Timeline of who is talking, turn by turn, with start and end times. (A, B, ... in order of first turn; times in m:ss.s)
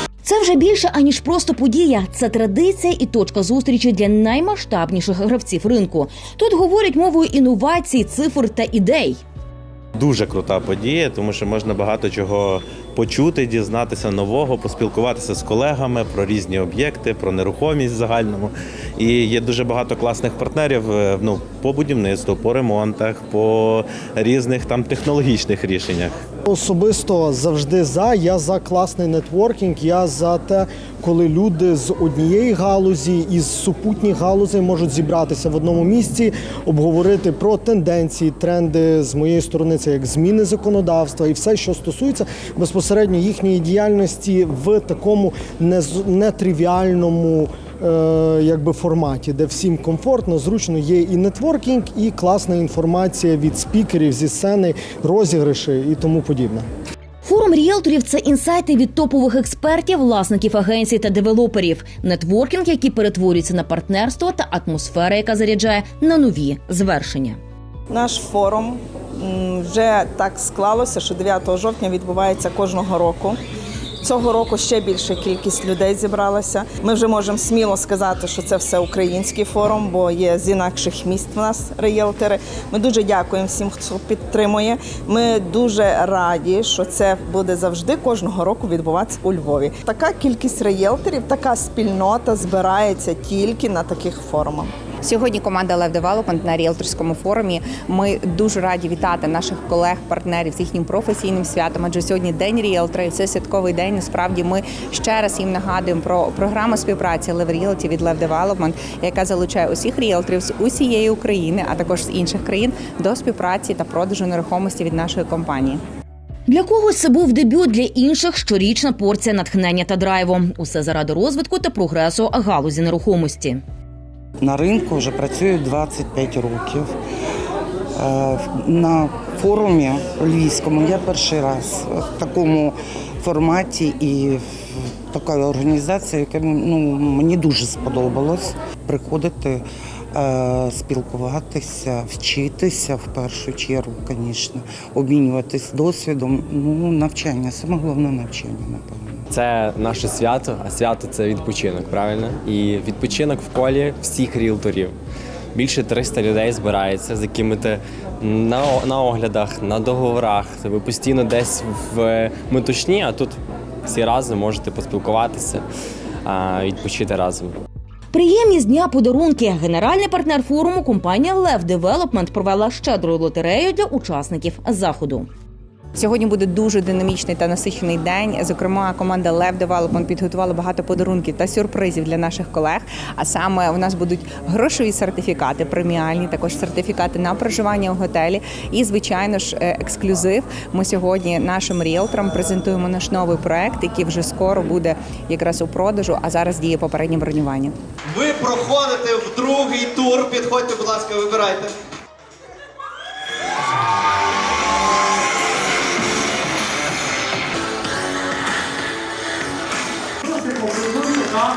0:00.2-0:09.2 A
0:10.0-0:26.1 B
0:26.4-0:56.6 C
0:57.2-1:07.4 A
1:07.9-1:13.4 D
1:14.0-1:34.7 D
1:35.0-1:55.8 E
1:56.5-2:03.6 A
2:04.4-2:06.9 F
2:08.0-2:29.2 F
2:29.3-2:34.9 G
2:35.5-2:45.6 G
2:46.2-2:47.5 G
2:48.1-2:55.3 A
2:55.9-3:17.8 E
3:18.1-3:21.8 H
3:30.3-3:31.4 C